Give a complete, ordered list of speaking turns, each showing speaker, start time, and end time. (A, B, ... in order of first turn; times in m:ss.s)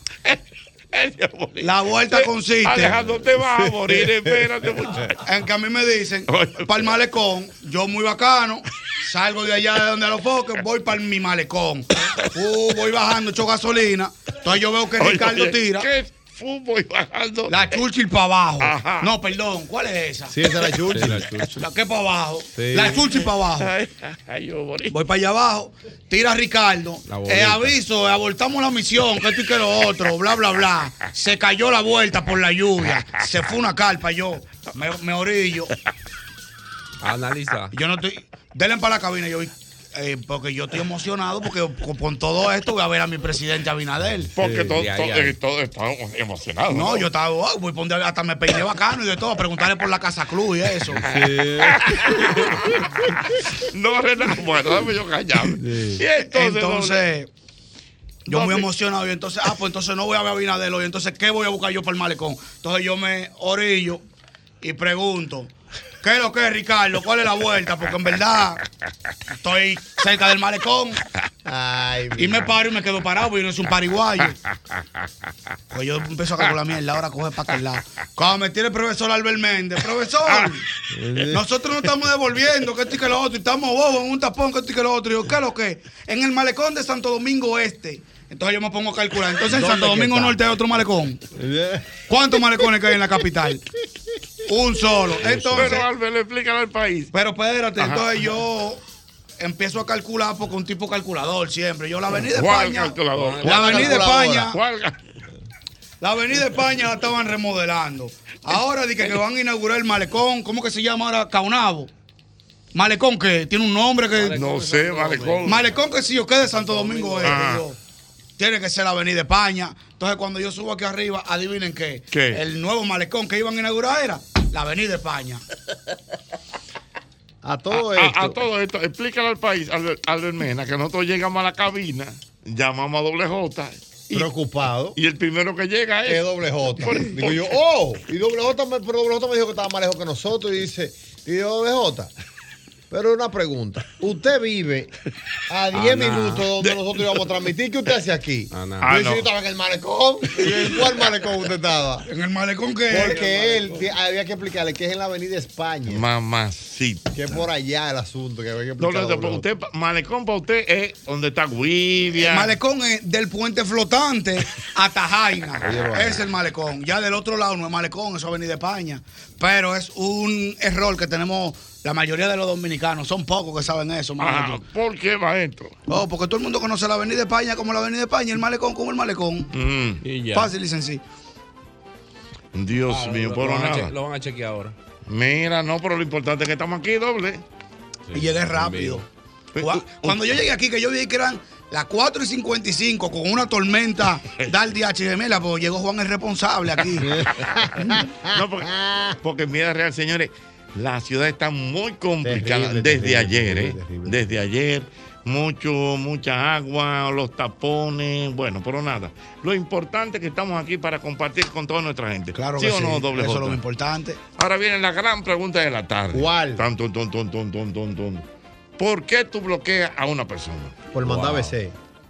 0:00.9-0:05.2 A
0:01.6-0:03.0 B
0:03.6-0:04.3 C
0:05.3-0:15.9 B
0:06.3-0:06.9 A
0:15.0-0:17.8 A
0:17.5-0:20.3 B
0:18.6-0:19.1 A
0:20.3-0:21.3 C
0:21.0-0:21.4 D
0:21.6-0:23.7 B
0:22.6-0:23.0 D
0:23.6-0:25.0 A
0:24.9-0:35.7 B
0:27.1-0:27.7 D
0:37.0-0:37.7 D
0:37.7-0:44.3 B
0:44.4-0:47.0 A
0:44.6-0:45.4 D
0:46.7-0:51.0 B
0:51.0-0:52.3 C
0:51.1-0:52.5 A
0:53.6-0:57.0 A
0:55.5-0:56.0 C
0:56.3-0:57.3 B
0:58.3-1:04.0 B
0:58.3-0:58.7 A
1:04.6-1:08.6 B
1:09.4-1:11.0 B
1:11.4-1:12.5 C
1:12.2-1:14.4 B
1:15.7-1:20.6 B
1:20.9-1:21.4 C
1:21.3-1:31.2 B
1:29.5-1:30.4 C
1:31.3-1:31.9 C
1:32.1-1:33.6 B
1:34.5-1:35.8 B
1:35.2-1:35.8 C
1:35.6-1:37.1 A
1:37.1-1:38.8 B
1:37.8-1:38.1 A
1:39.4-1:44.6 B
1:42.3-1:45.0 A
1:43.2-1:43.7 D
1:43.5-1:44.5 C
1:46.0-1:51.9 B
1:52.7-1:54.4 B
1:54.2-1:55.6 D
1:54.3-1:55.6 A
1:55.5-1:57.8 B
1:56.5-1:57.4 D
1:57.2-1:57.6 A
1:58.4-2:05.4 B
2:02.1-2:02.4 A
2:07.4-2:08.4 C
2:07.7-2:14.3 A
2:14.1-2:15.0 C
2:15.0-2:17.6 A
2:16.1-2:22.1 C
2:22.9-2:24.9 C
2:25.5-2:32.0 C
2:25.7-2:26.5 D
2:28.5-2:28.9 D
2:28.8-2:29.3 A
2:32.1-2:33.5 B
2:32.9-2:36.0 C
2:33.0-2:33.7 D
2:35.9-2:37.1 A
2:37.1-2:39.4 C
2:38.8-2:42.5 A
2:42.3-2:54.6 B
2:45.6-2:46.2 C
2:54.2-2:55.8 A
2:55.9-2:59.5 B
2:59.5-3:00.0 A
3:00.0-3:00.5 D
3:00.3-3:01.0 B
3:02.5-3:03.9 A
3:02.9-3:04.8 D
3:05.1-3:07.4 A
3:08.1-3:09.0 D
3:08.1-3:09.0 B
3:09.6-3:10.3 A
3:09.6-3:17.1 B
3:17.0-3:19.2 C
3:18.3-3:33.6 A
3:22.2-3:24.2 C
3:32.4-3:34.2 B
3:34.4-3:38.2 A
3:36.1-3:36.6 C
3:38.8-3:41.6 A
3:40.9-3:41.8 C